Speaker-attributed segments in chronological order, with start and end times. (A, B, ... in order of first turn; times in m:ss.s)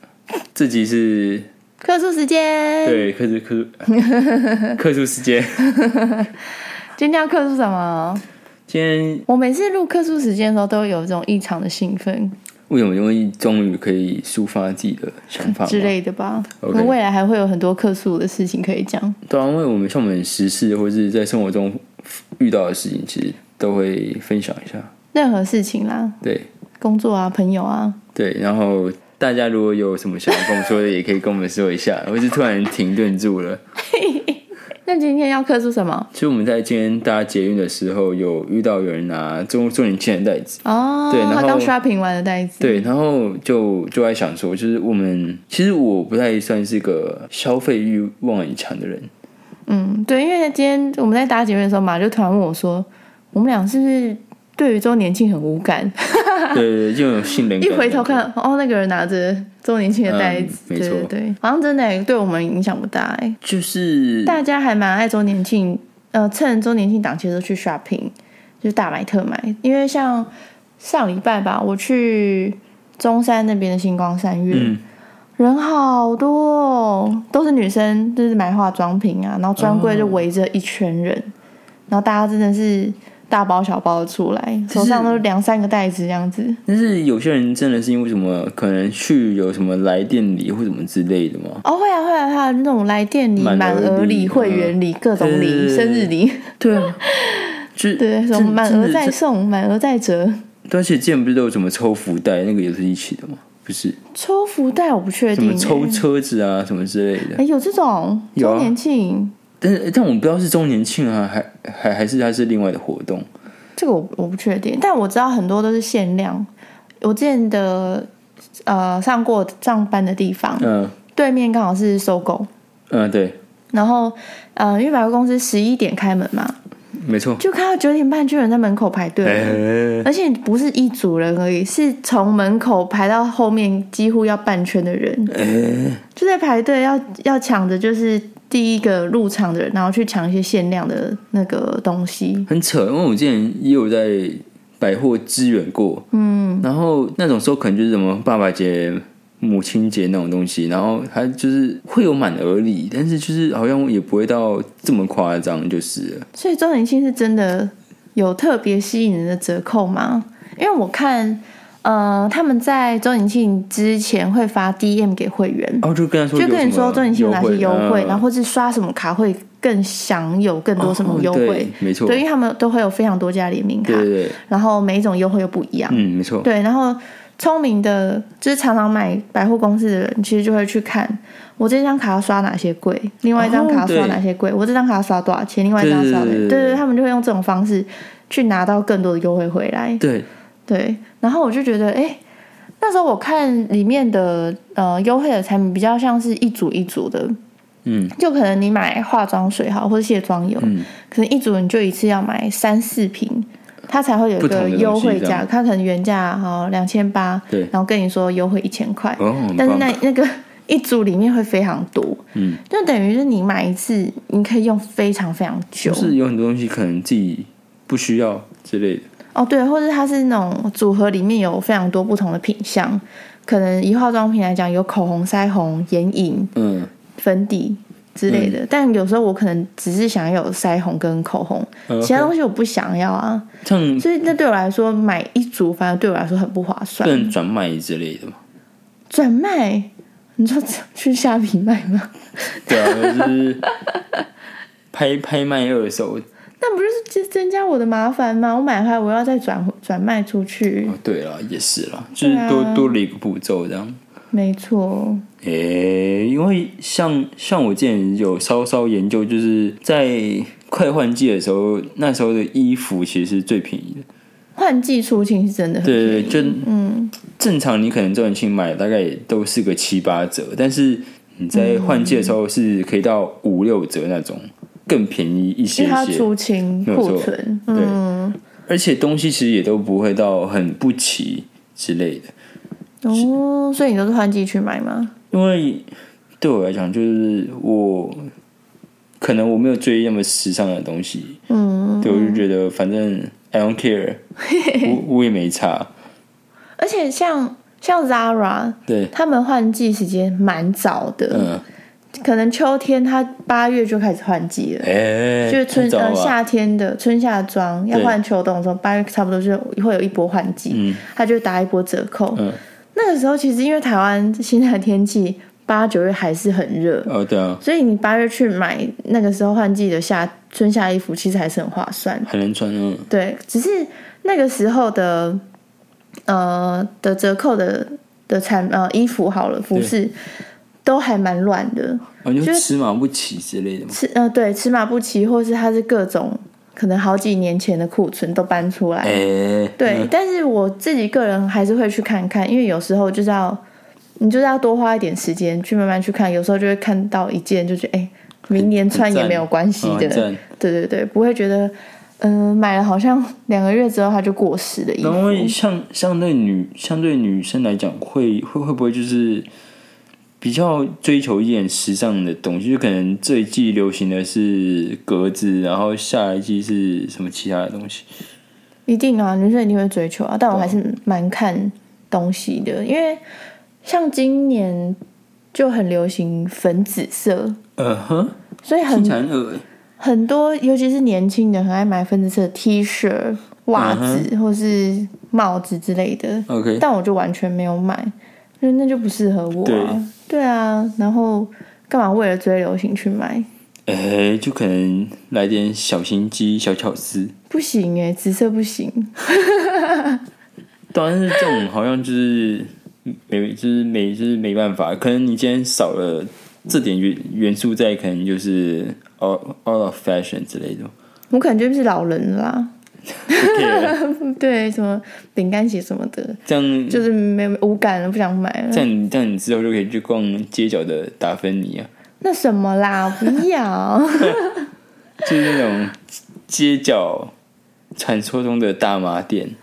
0:00.5-0:01.5 A
0:01.8-0:03.1 B
0:02.8-0:03.9 A
0:04.0-0:04.7 B
0:04.8-0:05.7 A
0:05.8-0:06.3 B
0:07.0-0:08.2 B
0:08.7-0:09.2 A
0:09.3-0:12.3 B
0:12.7-0:15.9 A
0:15.4-0:19.2 B
0:16.6-0:16.9 A
0:19.2-0:24.9 A
0:25.1-0:26.2 B
0:26.2-0:26.5 A
0:26.8-0:28.0 B
0:28.1-0:33.6 A
0:33.9-0:36.1 B
0:36.1-0:41.7 A
0:40.6-0:42.9 B
0:42.6-0:49.1 A
0:49.7-0:56.6 B
0:56.5-0:58.3 A
0:57.6-1:03.4 B
1:00.1-1:01.1 A
1:03.4-1:04.4 A
1:04.2-1:14.8 B
1:14.5-1:14.8 A
1:15.4-1:21.3 B
1:19.6-1:20.2 A
1:21.9-1:26.6 B
1:24.7-1:25.2 A
1:26.6-1:31.6 A
1:31.6-1:40.4 B
1:33.4-1:37.0 A
1:37.8-1:39.2 A
1:40.6-1:44.0 A
1:44.1-1:46.0 B
1:45.3-1:47.4 A
1:47.3-1:49.3 B
1:48.3-1:48.7 A
1:49.6-1:53.3 A
1:53.8-1:56.5 B
1:57.0-1:58.1 B
1:58.7-2:02.5 B
2:00.6-2:00.9 A
2:02.9-2:03.4 A
2:03.7-2:06.6 B
2:07.0-2:07.4 A
2:07.4-2:15.3 B
2:09.2-2:10.1 A
2:15.3-2:16.0 A
2:16.1-2:22.5 B
2:22.5-2:26.0 A
2:26.1-2:26.6 B
2:26.6-2:36.2 A
2:36.3-3:10.0 B
2:45.8-2:48.2 A
2:50.8-2:52.2 A
2:53.8-2:54.4 A
2:55.9-2:56.5 A
3:03.3-3:04.2 A
3:05.8-3:06.8 A
3:10.0-3:10.3 A
3:10.7-3:12.2 B
3:12.8-3:17.3 B
3:17.8-3:18.1 A
3:18.2-3:36.1 B
3:20.6-3:20.9 A
3:24.4-3:25.4 A
3:29.2-3:30.0 A
3:32.3-3:32.6 A
3:35.8-3:39.0 A
3:39.3-3:46.5 B
3:46.6-3:46.9 A
3:47.2-3:53.4 B
3:48.3-3:48.6 A
3:51.9-3:52.3 A
3:53.6-3:54.1 A
3:54.0-3:57.3 B
3:57.0-3:58.4 A
3:59.1-4:03.3 B
4:02.6-4:03.6 A
4:04.9-4:06.2 A
4:06.6-4:11.0 B
4:10.8-4:14.0 A
4:12.2-4:13.0 B
4:14.3-4:15.2 B
4:15.4-4:24.0 A
4:24.6-4:27.1 B
4:25.8-4:26.7 A
4:27.3-4:36.3 A
4:31.5-4:32.4 B
4:35.8-4:38.4 B
4:36.8-4:38.0 A
4:38.7-4:42.3 A
4:43.0-4:45.1 B
4:45.3-4:45.9 A
4:46.4-4:48.3 A
4:49.2-4:51.4 A
4:51.5-4:52.4 B
4:52.0-4:54.2 A
4:54.5-4:54.9 B
4:54.8-4:55.9 A
4:56.8-5:01.5 B
4:58.9-4:59.1 A
5:01.3-5:01.6 A
5:02.1-5:04.9 B
5:04.8-5:06.4 A
5:05.4-5:22.3 B
5:07.9-5:08.2 A
5:10.7-5:11.0 A
5:17.0-5:17.6 A
5:22.2-5:23.1 A
5:23.1-5:25.4 B
5:26.3-5:30.2 B
5:30.8-5:32.7 B
5:32.2-5:34.0 A
5:33.9-5:39.2 B
5:39.0-5:40.1 A
5:39.8-5:43.6 B
5:44.2-5:55.6 B
5:48.5-5:50.4 A
5:55.0-5:59.4 A
6:00.4-6:08.0 A
6:08.9-6:13.2 B
6:10.5-6:10.8 A
6:13.8-6:15.0 B
6:15.5-6:17.6 B
6:17.8-6:18.4 A
6:18.6-6:19.2 B
6:18.9-6:19.6 A
6:20.0-6:33.5 B
6:23.7-6:24.3 A
6:26.5-6:26.8 A
6:29.6-6:30.0 A
6:33.9-6:37.3 A
6:37.5-6:40.2 B
6:40.9-6:50.9 A
6:51.3-6:52.7 B
6:53.3-6:58.9 B
6:53.3-6:54.0 A
6:56.5-6:57.0 A
6:58.7-7:01.9 A
7:02.2-7:04.7 B
7:05.2-7:07.3 A
7:08.0-7:09.5 A